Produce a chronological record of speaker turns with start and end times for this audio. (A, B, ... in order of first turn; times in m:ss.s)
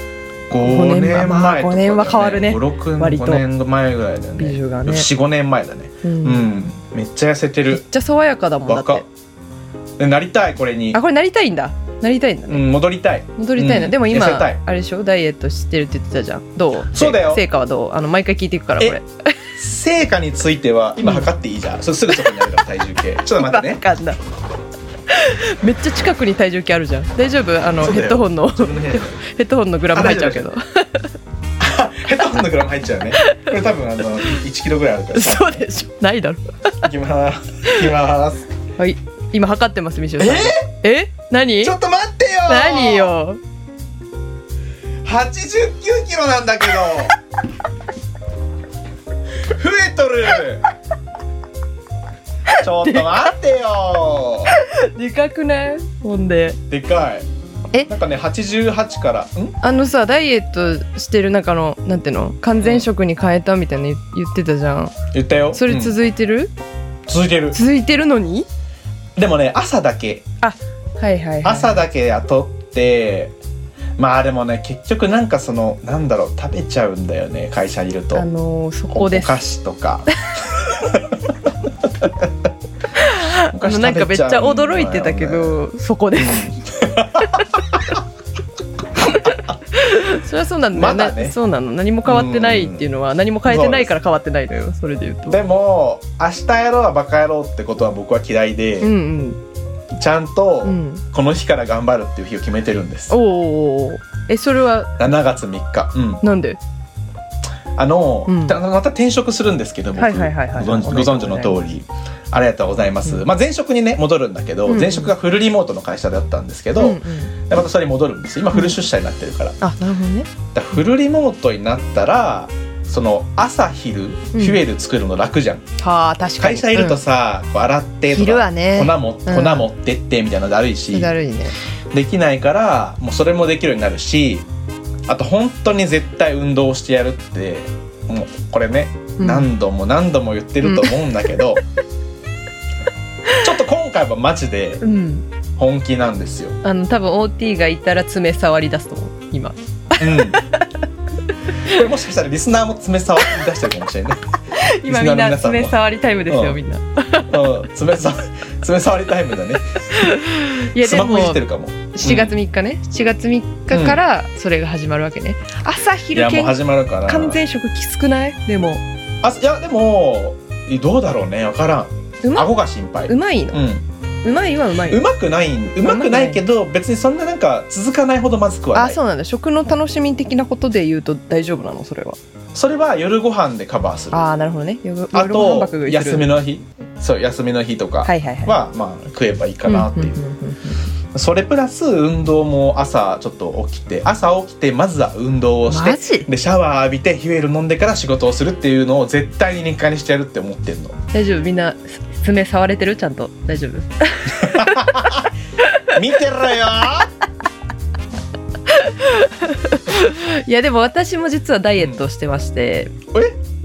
0:00.5-0:07.8 A
0:00.6-0:03.4 B
0:04.4-0:05.1 B
0:06.0-0:06.7 B
0:07.7-0:09.0 B
0:08.6-0:09.0 A
0:10.0-0:11.0 A
0:10.9-0:12.6 B
0:12.5-0:14.6 A
0:13.4-0:19.3 B
0:16.9-0:17.4 A
0:19.6-0:23.8 A
0:21.0-0:21.3 B
0:22.1-0:22.4 B
0:23.4-0:24.2 B
0:25.1-0:31.1 B
0:27.8-0:29.2 A
0:29.9-0:30.4 A
0:31.6-0:35.6 A
0:33.1-0:34.4 B
0:35.1-0:36.9 B
0:36.8-0:38.5 A
0:38.8-0:41.8 B
0:40.2-0:40.6 A
0:41.6-0:43.1 A
0:42.5-0:43.4 B
0:45.0-0:47.2 A
0:49.4-0:50.6 A
0:52.5-0:53.3 B
0:52.6-0:54.5 A
0:54.5-0:56.6 B
0:56.7-0:57.2 A
0:57.9-0:59.6 A
0:59.6-1:04.9 B
1:02.6-1:02.9 A
1:05.1-1:05.9 A
1:05.5-1:06.5 B
1:07.1-1:07.6 A
1:07.5-1:08.5 B
1:09.2-1:10.2 A
1:10.4-1:11.8 B
1:11.4-1:13.3 A
1:14.0-1:18.3 A
1:18.1-1:19.4 B
1:18.9-1:21.3 A
1:22.0-1:22.3 A
1:22.9-1:26.6 B
1:23.4-1:25.6 A
1:26.2-1:27.4 A
1:27.2-1:27.6 B
1:29.0-1:35.4 B
1:30.7-1:31.4 A
1:32.0-1:32.9 A
1:33.5-1:33.9 A
1:35.3-1:38.9 A
1:38.8-1:39.4 B
1:39.9-1:43.1 A
1:40.6-1:41.0 B
1:43.1-1:44.9 B
1:45.0-1:46.2 A
1:46.2-1:46.6 B
1:47.8-1:59.6 A
1:48.3-1:48.6 B
1:50.0-1:51.6 B
1:54.6-1:55.1 B
1:56.8-1:57.4 B
1:58.5-1:58.8 B
1:59.6-2:00.3 B
2:00.5-2:05.6 A
2:04.3-2:04.6 B
2:05.8-2:07.0 B
2:06.4-2:11.1 A
2:08.1-2:09.7 B
2:10.9-2:11.6 B
2:11.9-2:14.5 A
2:15.1-2:21.6 A
2:19.2-2:19.5 B
2:20.6-2:21.0 B
2:23.4-2:24.8 A
2:24.8-2:25.2 B
2:25.6-2:26.6 A
2:26.6-2:30.8 B
2:30.0-2:30.4 A
2:31.5-2:31.8 B
2:31.6-2:34.3 A
2:34.5-2:37.5 B
2:34.8-2:36.6 A
2:37.3-2:40.1 A
2:39.9-2:41.4 B
2:40.8-2:42.4 A
2:41.9-2:48.8 B
2:43.7-2:44.0 A
2:46.1-2:47.4 A
2:49.2-2:53.8 A
2:52.2-2:52.5 B
2:53.1-2:53.6 B
2:54.2-2:55.0 B
2:54.9-2:59.0 A
2:55.8-2:56.4 B
2:58.7-3:02.2 B
3:02.5-3:04.2 A
3:04.1-3:06.3 B
3:05.1-3:10.2 A
3:08.0-3:08.6 B
3:09.6-3:10.9 B
3:11.1-3:21.0 A
3:15.7-3:16.3 B
3:21.1-3:26.0 B
3:24.4-3:25.2 A
3:25.9-3:27.1 A
3:28.7-3:32.9 B